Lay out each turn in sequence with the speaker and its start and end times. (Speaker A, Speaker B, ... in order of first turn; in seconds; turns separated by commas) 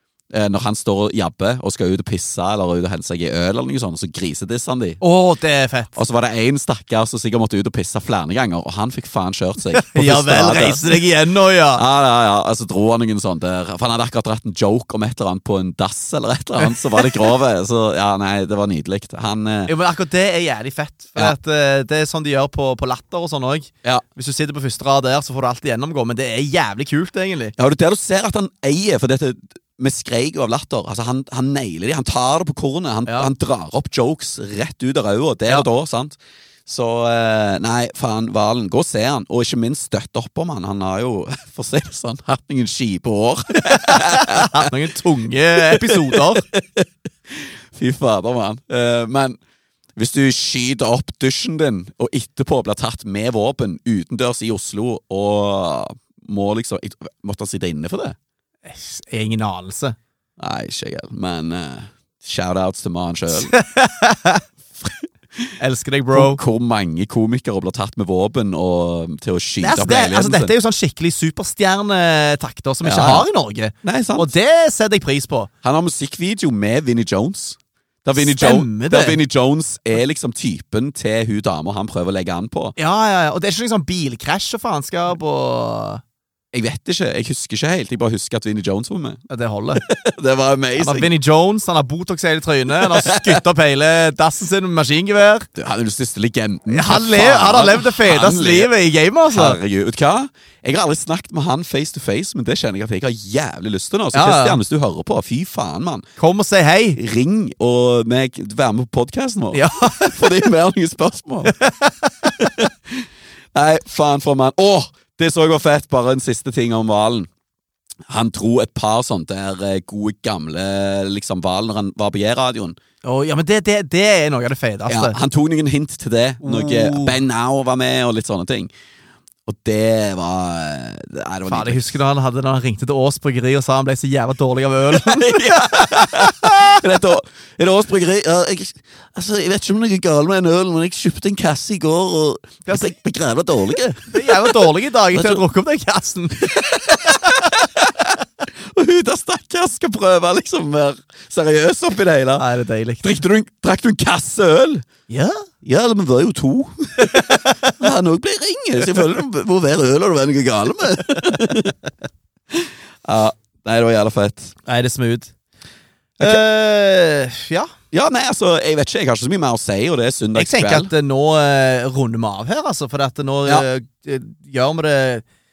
Speaker A: 0.3-5.0, Speaker B: 5.0-6.0, Speaker A: 5.9-11.0, Speaker B: 9.7-11.8, Speaker A: 11.7-19.7, Speaker B: 16.6-17.0, Speaker B: 19.7-27.5, Speaker A: 27.6-44.7, Speaker B: 43.7-46.4, Speaker A: 45.6-49.4, Speaker A: 50.0-58.1, Speaker B: 58.6-60.0, Speaker A: 60.4-63.5, Speaker B: 63.3-64.4, Speaker A: 64.8-65.5, Speaker B: 65.6-66.4, Speaker A: 66.1-70.5, Speaker B: 69.6-75.5, Speaker A: 72.8-73.3, Speaker A: 73.8-74.3, Speaker A: 75.6-82.8, Speaker B: 78.1-79.2, Speaker B: 82.8-86.0, Speaker A: 86.5-89.2, Speaker B: 89.3-89.8, Speaker A: 89.8-91.1, Speaker B: 90.8-95.5, Speaker A: 92.8-93.4, Speaker A: 95.5-98.7, Speaker B: 96.7-99.6, Speaker A: 99.3-106.1, Speaker B: 104.1-104.6, Speaker B: 106.2-107.0, Speaker A: 107.0-111.6, Speaker B: 109.5-110.3, Speaker B: 111.4-112.3, Speaker A: 112.4-117.3, Speaker A: 118.1-122.8, Speaker B: 123.0-125.2, Speaker A: 124.9-128.7, Speaker B: 126.4-127.2, Speaker A: 129.4-131.9, Speaker B: 131.5-136.8, Speaker A: 134.9-145.4, Speaker B: 142.7-142.9, Speaker B: 144.1-147.5, Speaker A: 146.4-152.4, Speaker B: 152.4-153.2, Speaker A: 153.0-154.9, Speaker B: 155.1-155.5, Speaker A: 155.6-161.7, Speaker B: 157.0-157.7, Speaker A: 162.5-164.5, Speaker B: 164.7-165.3, Speaker B: 166.2-167.7, Speaker A: 167.9-170.9, Speaker B: 170.3-175.2